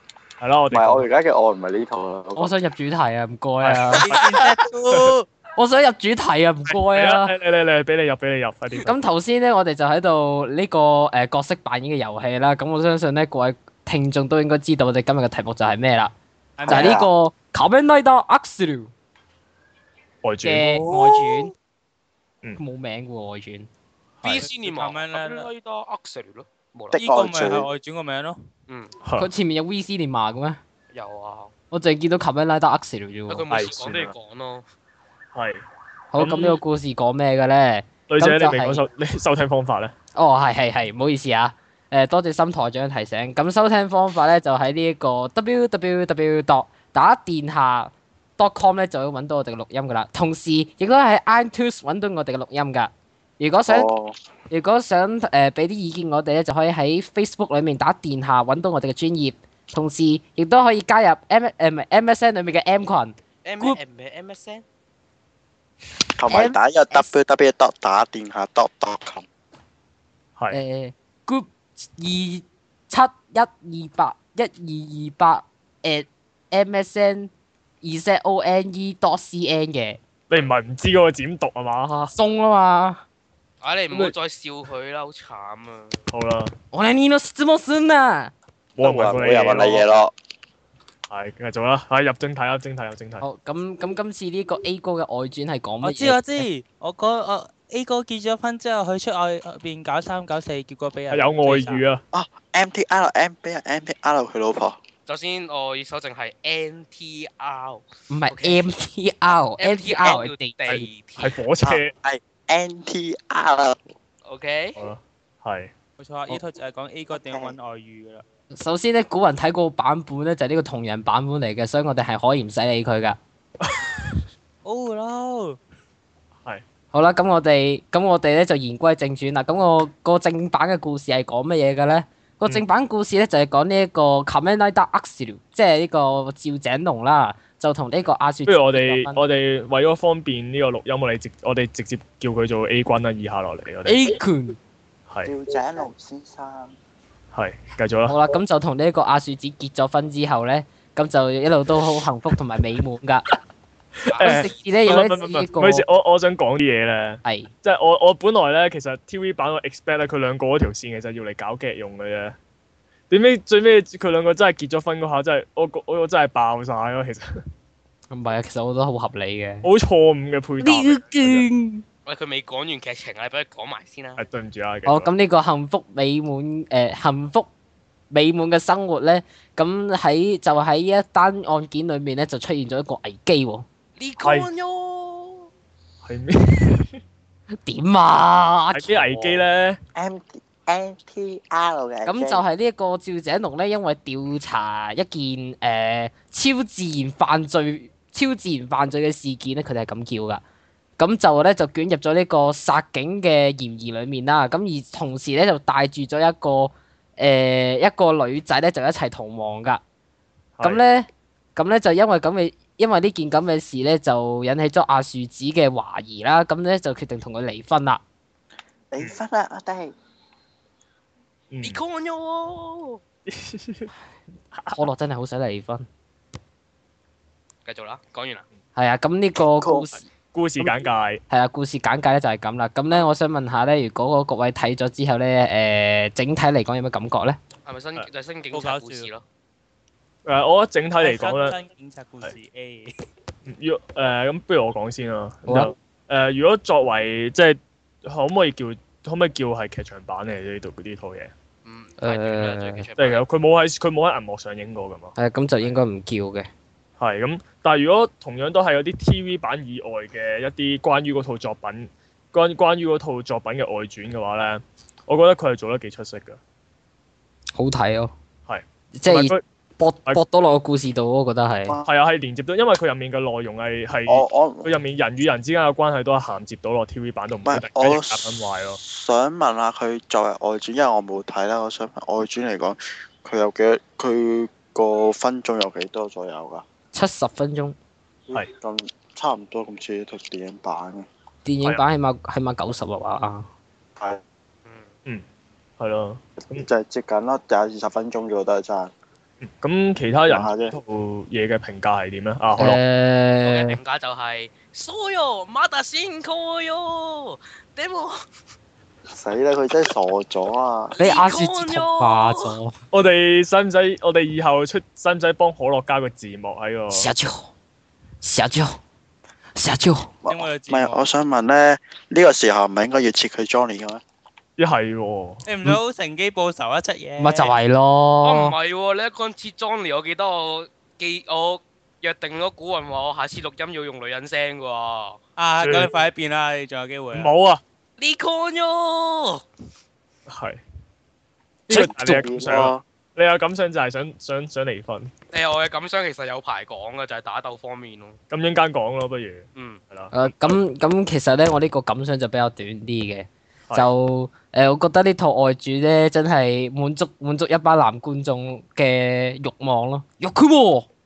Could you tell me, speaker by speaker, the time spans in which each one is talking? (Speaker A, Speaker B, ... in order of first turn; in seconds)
Speaker A: 0.4-1.1, 3.6-5.1, 6.7-9.0, 20.2-20.8, 24.2-24.5, 29.0-29.3, 33.5-34.1, 35.3-35.6, 36.1-36.6, 38.1-39.9, 80.3-82.1, 83.9-84.1, 86.1-86.5, 88.8-90.1, 91.1-93.2, 101.1-102.0, 110.7-111.9, 114.8-115.7, 123.6-124.1, 138.4-144.0, 147.3-148.2, 154.0-162.3, 163.1-167.4, 169.6-171.5, 174.2-175.1, 184.2-184.5, 186.0-187.0, 188.7-189.8, 221.5-221.8, 223.3-223.9, 224.5-224.8, 230.3-231.2, 240.2-241.5, 243.4-251.3, 253.0-255.1, 257.0-266.4, 268.5-269.4, 271.8-278.8, 295.8-296.6, 299.4-302.8, 312.9-317.1, 324.6-325.4, 335.6-335.9, 337.1-337.6, 340.3-340.6, 341.7-345.1, 348.3-350.6
Speaker B: 0.7-2.5, 16.6-17.1, 26.9-27.7, 53.6-54.1, 66.2-69.2, 88.8-90.1, 102.1-104.8, 111.6-113.8, 117.1-117.5, 145.2-146.8, 189.9-192.4, 218.9-219.9, 229.6-229.9, 274.1-274.7, 277.4-286.6, 288.3-291.1, 296.4-298.9, 300.3-300.8, 309.1-310.9, 320.2-324.0, 341.7-342.8
Speaker C: 2.4-4.2, 5.5-7.3, 8.8-16.1, 16.7-18.9, 20.4-21.5, 22.6-23.7, 29.2-30.6, 31.7-33.4, 36.1-38.8, 40.1-53.9, 54.5-63.8, 66.3-67.1, 70.5-77.3, 77.8-80.0, 82.1-83.0, 86.7-88.3, 93.2-96.5, 108.1-110.6, 118.6-123.2, 126.9-139.2, 143.8-144.6, 148.1-153.2, 154.2-155.8, 157.2-157.5, 168.1-169.7, 170.6-171.8, 174.8-177.5, 178.1-183.6, 187.6-189.4, 192.0-200.4, 201.0-209.8, 210.6-218.0, 224.7-225.8, 228.8-230.1, 231.3-237.4, 245.5-245.7, 252.0-252.8, 255.2-256.5, 267.5-268.1, 268.9-271.8, 286.9-287.7, 291.4-293.5, 302.6-303.8, 311.0-312.7, 316.9-317.5, 318.2-318.8, 319.6-320.1, 327.2-328.5, 350.1-360.9
Speaker D: 3.9-5.2, 16.6-17.1, 20.6-21.3, 24.4-25.5, 26.9-28.4, 95.8-101.8, 116.0-118.2, 124.6-125.6, 238.5-239.1, 241.0-242.9, 320.2-321.0, 325.4-327.5, 335.4-337.3
Speaker E: 24.2-27.0, 28.7-28.9, 30.9-31.5, 33.3-34.6, 63.4-64.6, 83.6-86.0, 105.1-108.6, 109.6-111.4, 114.2-114.8, 154.1-154.3, 172.1-174.2, 184.0-185.5, 221.6-223.0, 227.6-228.4, 237.7-239.2, 251.6-253.2, 294.6-294.9, 303.4-308.2, 310.9-312.5, 328.2-335.2, 338.0-339.4, 345.3-348.2, 349.5-349.8